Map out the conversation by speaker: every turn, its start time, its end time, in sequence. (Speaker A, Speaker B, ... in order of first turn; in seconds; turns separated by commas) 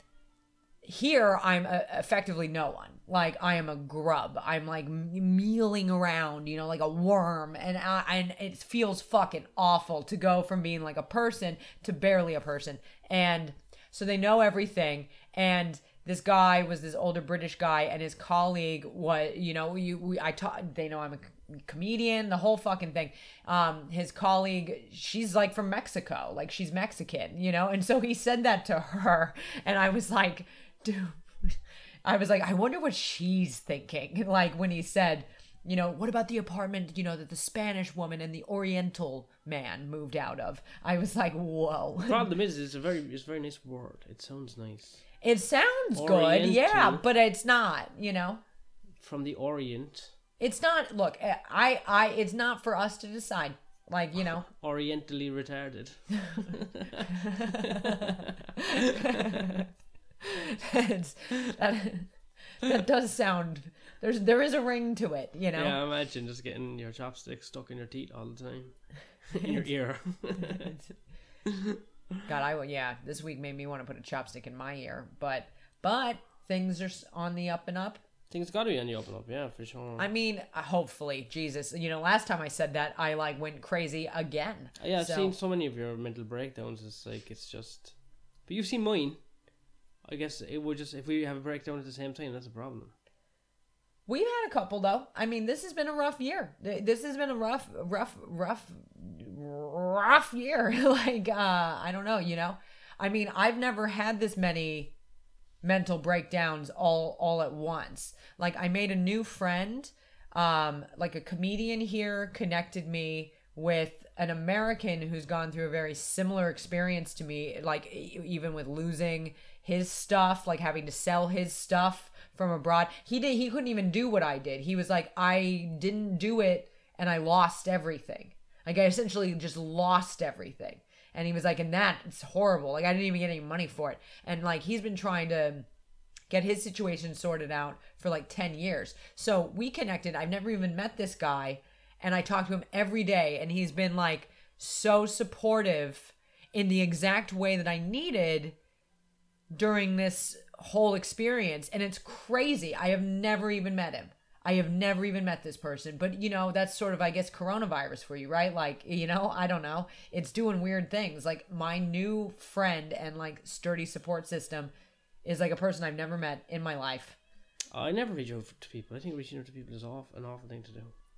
Speaker A: 0.8-42.2, Speaker B: 42.0-45.0, Speaker A: 45.2-48.4, Speaker B: 46.0-47.0, Speaker B: 49.0-50.1, Speaker A: 50.4-54.5, Speaker B: 54.5-58.3, Speaker A: 57.1-59.6, Speaker A: 60.2-65.8, Speaker B: 65.5-70.7, Speaker A: 69.4-69.7, Speaker A: 70.4-70.8, Speaker B: 71.5-71.8, Speaker A: 72.2-78.0, Speaker B: 78.3-80.1, Speaker A: 80.0-85.3, Speaker B: 84.8-87.9, Speaker B: 88.5-89.2, Speaker B: 90.0-92.9, Speaker A: 94.1-105.0, Speaker A: 105.6-135.7, Speaker A: 136.3-148.6, Speaker A: 149.5-164.7, Speaker A: 165.2-167.2, Speaker B: 167.7-170.9